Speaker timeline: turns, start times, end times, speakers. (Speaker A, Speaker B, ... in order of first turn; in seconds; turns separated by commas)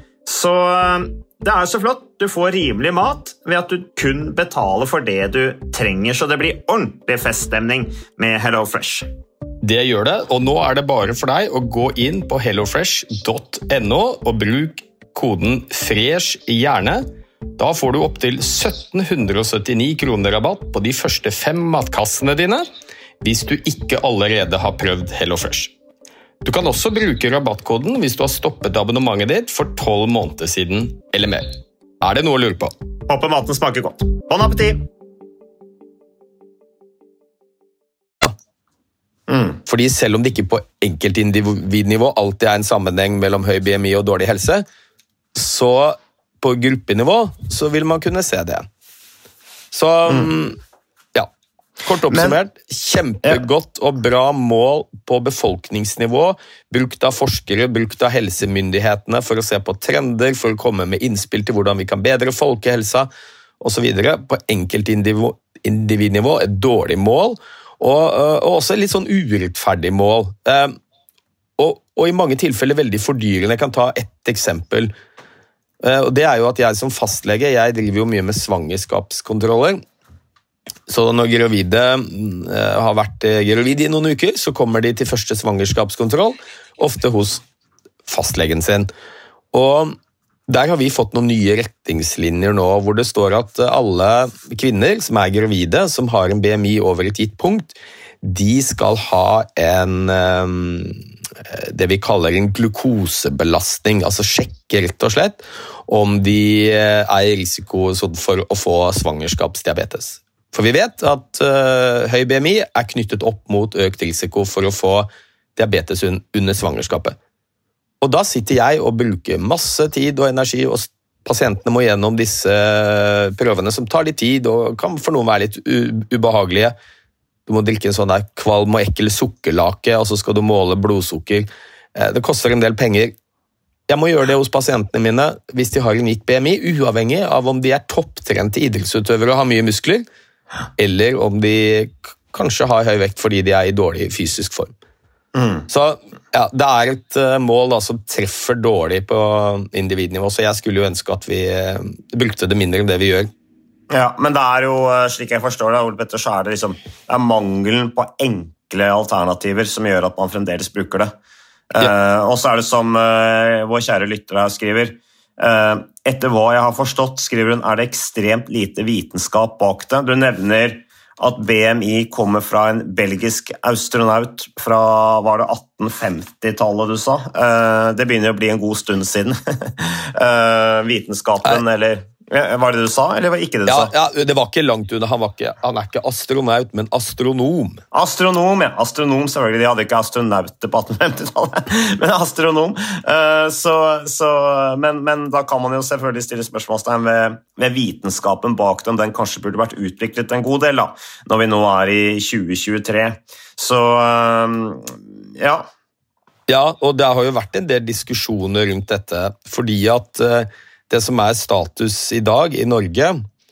Speaker A: 0.2-9.1, Speaker B: 9.6-17.0, Speaker B: 17.6-22.6, Speaker B: 23.2-25.7, Speaker B: 26.4-32.7, Speaker A: 33.1-34.8, Speaker C: 39.3-39.5, Speaker B: 39.6-44.6, Speaker B: 45.3-48.7, Speaker B: 49.7-50.6, Speaker B: 51.8-63.1, Speaker B: 63.6-70.8, Speaker B: 71.6-74.9, Speaker B: 75.8-79.8, Speaker B: 80.9-87.4, Speaker B: 88.1-88.9, Speaker B: 89.5-90.0, Speaker B: 90.5-117.2, Speaker B: 118.0-126.7, Speaker B: 127.5-133.1, Speaker B: 133.9-140.0, Speaker B: 140.8-144.7, Speaker C: 145.3-145.7, Speaker B: 145.7-153.3, Speaker C: 153.9-161.1, Speaker C: 161.7-183.9, Speaker B: 183.7-187.8, Speaker C: 187.9-205.7, Speaker B: 206.5-213.2